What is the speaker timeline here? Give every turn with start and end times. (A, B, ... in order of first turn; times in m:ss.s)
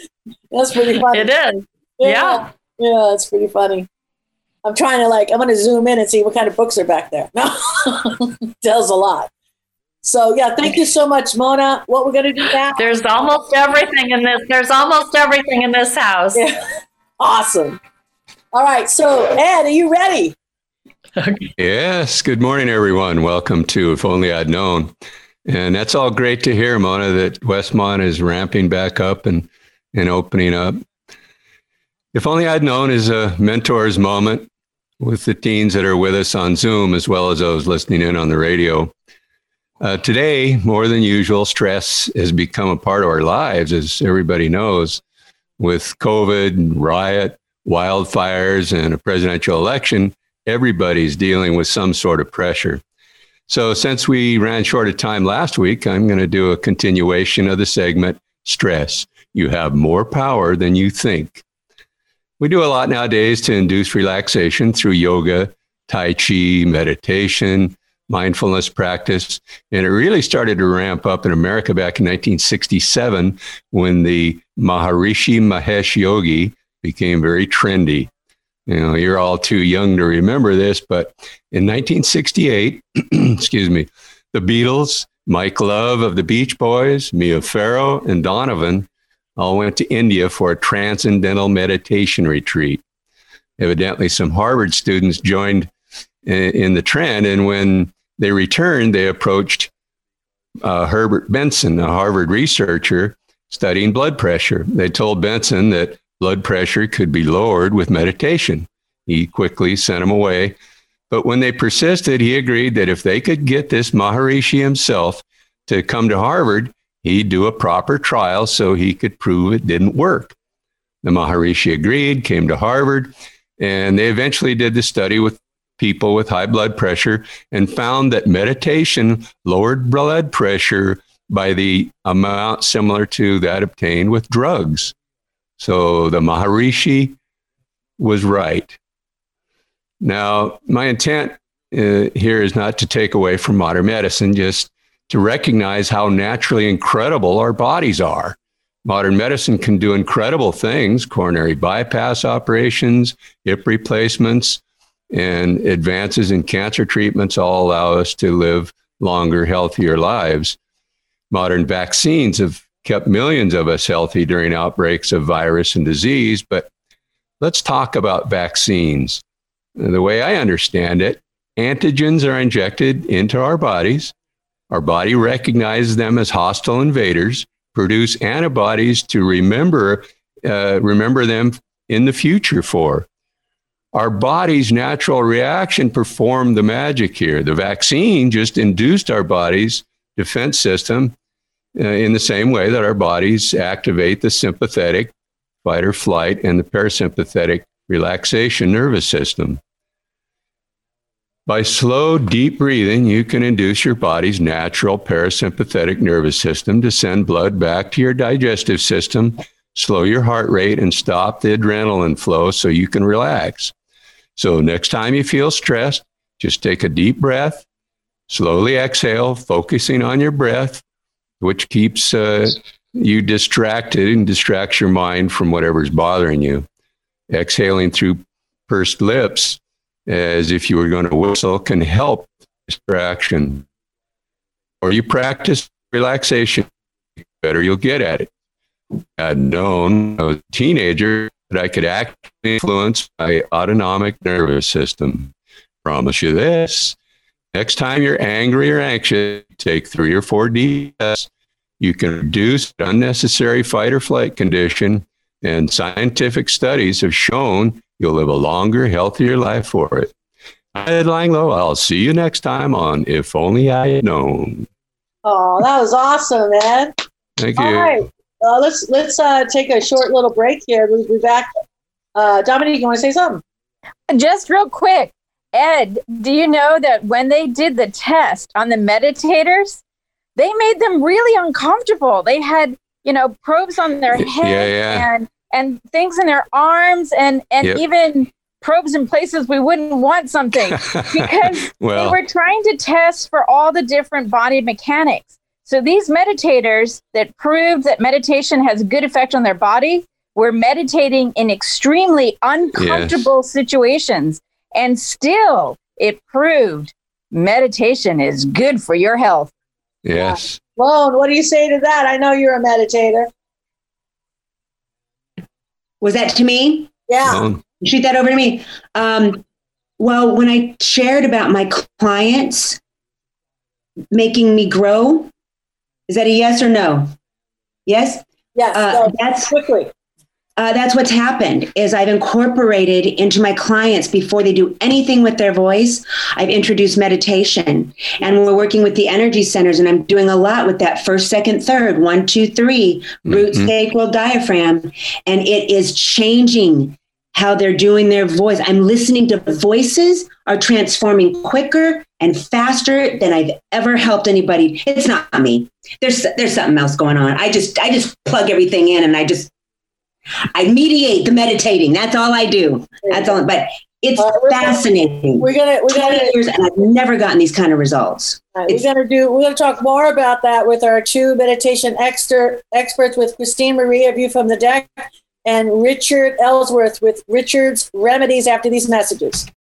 0:00.5-0:01.3 A
0:01.1-0:02.4 B
0:02.0-0:03.9 A
0:04.6-0:09.3 A
0:10.0-0:12.9 A
0:12.8-0:16.4 B
0:17.2-0:17.8 A
0:18.5-0:20.4 A
0:21.2-0:21.5 B
0:21.6-0:24.9 C
0:25.5-0:30.8 C
0:32.1-0:34.5 C
0:35.0-0:38.9 C
0:39.8-0:45.0 C
0:45.6-0:52.8 C
0:53.5-1:01.4 C
1:02.4-1:18.1 C
1:18.7-1:32.8 C
1:33.6-1:35.7 C
1:36.3-1:39.7 C
1:40.6-1:50.6 C
1:51.1-2:00.4 C
2:01.0-2:14.9 C
2:15.6-2:17.2 C
2:18.0-2:18.8 C
2:20.0-2:40.6 C
2:41.3-2:46.7 C
2:47.4-2:49.2 C
2:49.8-2:54.1 C
2:54.7-3:03.1 C
3:03.9-3:11.1 C
3:11.8-3:15.1 C
3:15.6-3:19.6 C
3:21.5-3:33.7 C
3:34.4-3:37.6 C
3:38.3-3:40.8 C
3:41.4-3:46.6 C
3:47.3-3:53.6 C
3:54.8-3:56.7 C
3:57.4-3:58.3 C
3:59.2-4:05.3 C
4:05.8-4:07.0 C
4:07.5-4:11.3 C
4:11.8-4:20.1 C
4:20.8-4:24.7 C
4:25.2-4:26.9 A
4:27.4-4:28.0 C
4:27.6-4:31.5 A
4:32.1-4:33.4 A
4:34.1-4:39.8 D
4:40.4-5:09.5 D
4:44.2-4:45.1 C
4:50.6-4:52.2 C
5:02.7-5:03.3 C
5:10.0-5:10.6 C
5:10.2-5:13.3 A
5:16.0-5:16.9 E
5:17.1-5:17.4 A
5:17.2-5:17.6 C
5:17.8-5:19.4 E
5:20.0-5:22.8 E
5:24.1-5:25.3 E
5:26.1-5:27.1 E
5:27.9-5:29.6 E
5:28.6-5:29.9 A
5:30.6-5:59.5 E
5:43.3-5:43.7 C
6:00.6-6:08.9 E
6:03.0-6:03.3 A
6:04.2-6:06.4 A
6:08.6-6:19.5 A